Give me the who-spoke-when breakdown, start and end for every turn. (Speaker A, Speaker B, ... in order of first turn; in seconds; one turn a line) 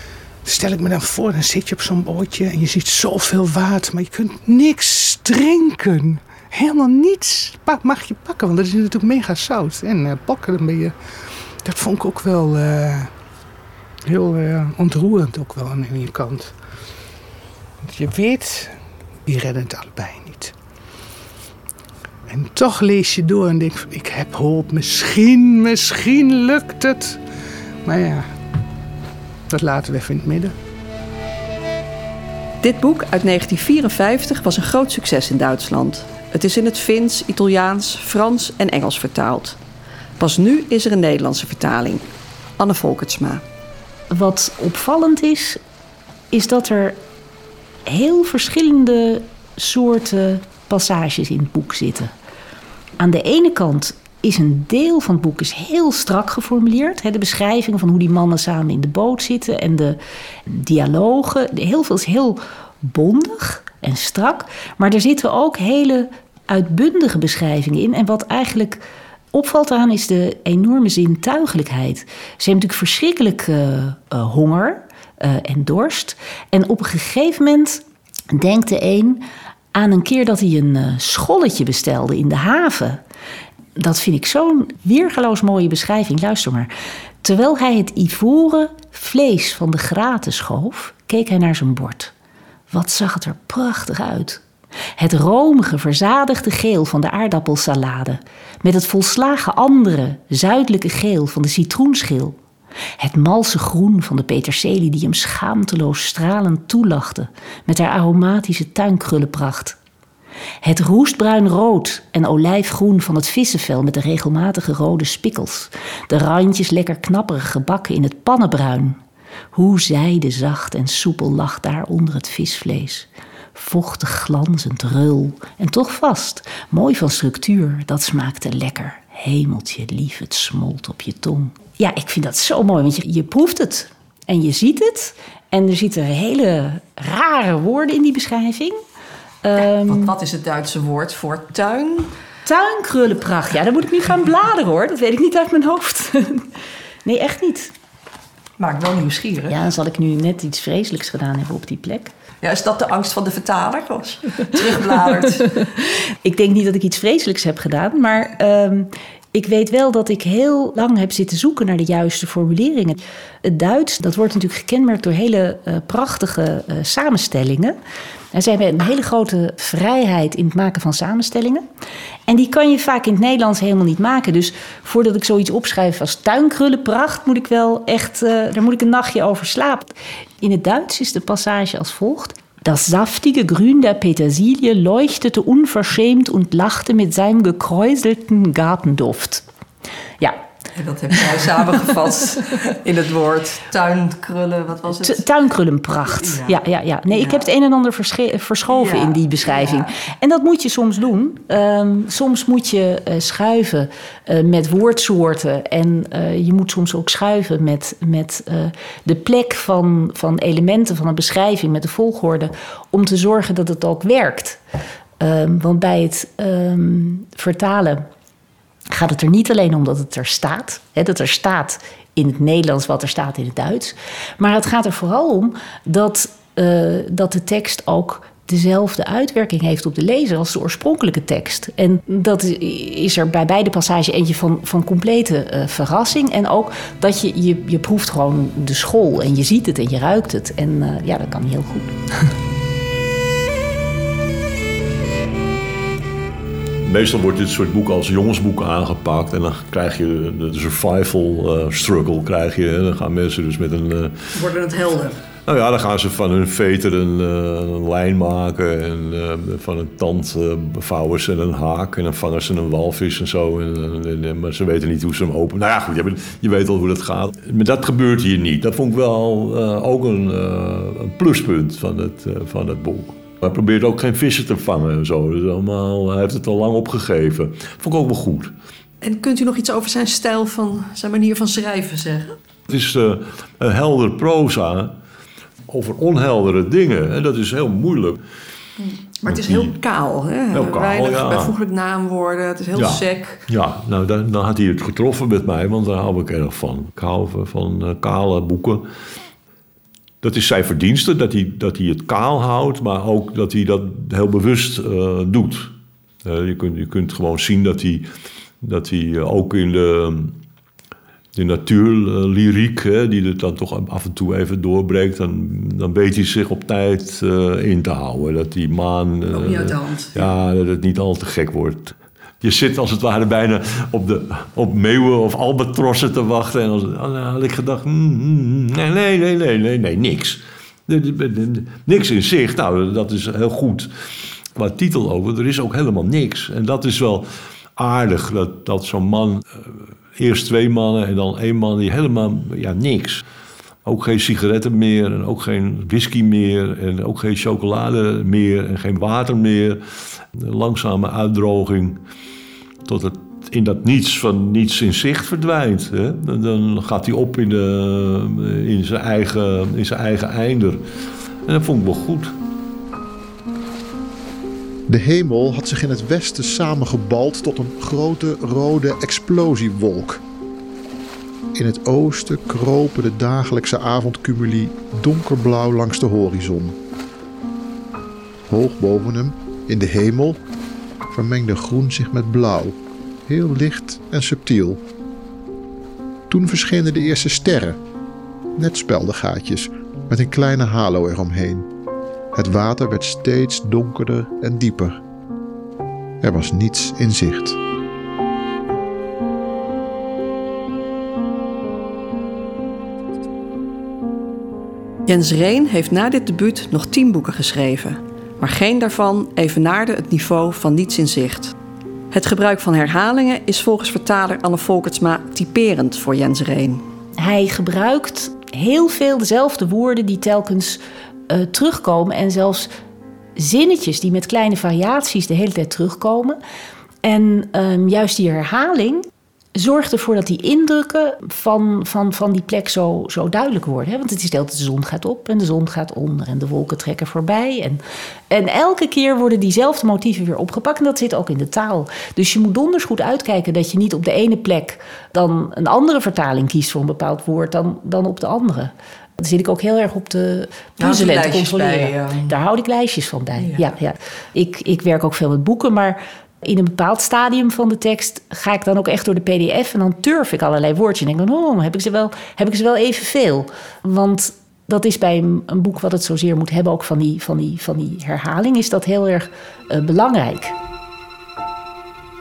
Speaker A: 0.4-10.9
Speaker A: 11.6-13.1
Speaker A: 14.1-16.6
Speaker A: 17.8-20.6
Speaker A: 22.3-27.2
Speaker A: 27.9-28.3
Speaker A: 29.5-30.6
Speaker B: 32.6-39.6
Speaker B: 40.2-42.1
Speaker B: 42.6-43.4
Speaker C: 44.1-45.6
Speaker C: 46.3-47.0
Speaker C: 47.9-52.1
Speaker C: 53.0-68.8
Speaker C: 69.3-83.0
Speaker C: 83.8-86.7
Speaker C: 87.2-92.1
Speaker C: 92.7-94.4
Speaker C: 95.0-102.4
Speaker C: 103.0-109.8
Speaker C: 110.6-119.0
Speaker C: 119.5-138.8
Speaker C: 139.4-140.1
Speaker B: 139.6-142.1
Speaker C: 142.5-146.5
Speaker C: 147.1-147.7
Speaker B: 148.6-149.6
Speaker C: 149.5-152.1
Speaker B: 152.4-155.6
Speaker C: 156.2-167.8
Speaker C: 168.3-171.6
Speaker C: 172.3-189.5
Speaker B: 190.8-195.2
Speaker C: 195.0-214.6
Speaker B: 196.2-196.6
Speaker B: 197.1-197.4
Speaker B: 198.7-199.9
Speaker C: 215.2-218.1
Speaker C: 218.9-241.9
Speaker D: 246.8-254.2
Speaker B: 254.3-255.2
Speaker D: 255.4-278.5
Speaker B: 279.0-282.4
Speaker D: 282.7-284.9
Speaker D: 285.7-288.2
Speaker B: 288.8-293.4
Speaker D: 289.3-289.8
Speaker D: 290.5-291.6
Speaker D: 292.8-298.9
Speaker D: 300.2-305.7
Speaker D: 306.2-308.1
Speaker D: 308.6-310.4
Speaker D: 311.4-333.9
Speaker B: 319.3-320.3
Speaker D: 334.6-343.2
Speaker D: 343.9-349.8
Speaker D: 350.3-352.0
Speaker D: 352.9-360.8
Speaker D: 361.5-362.4
Speaker E: 364.9-370.2
Speaker E: 371.6-376.8
Speaker E: 378.5-380.4
Speaker E: 381.1-384.8
Speaker E: 386.3-387.8
Speaker E: 388.6-391.7
Speaker E: 392.3-395.0
Speaker E: 396.2-397.6
Speaker B: 405.1-411.5
Speaker B: 412.1-416.8
Speaker C: 417.2-422.7
Speaker C: 423.4-426.4
Speaker C: 427.0-470.6
Speaker B: 450.8-452.3
Speaker B: 453.4-453.7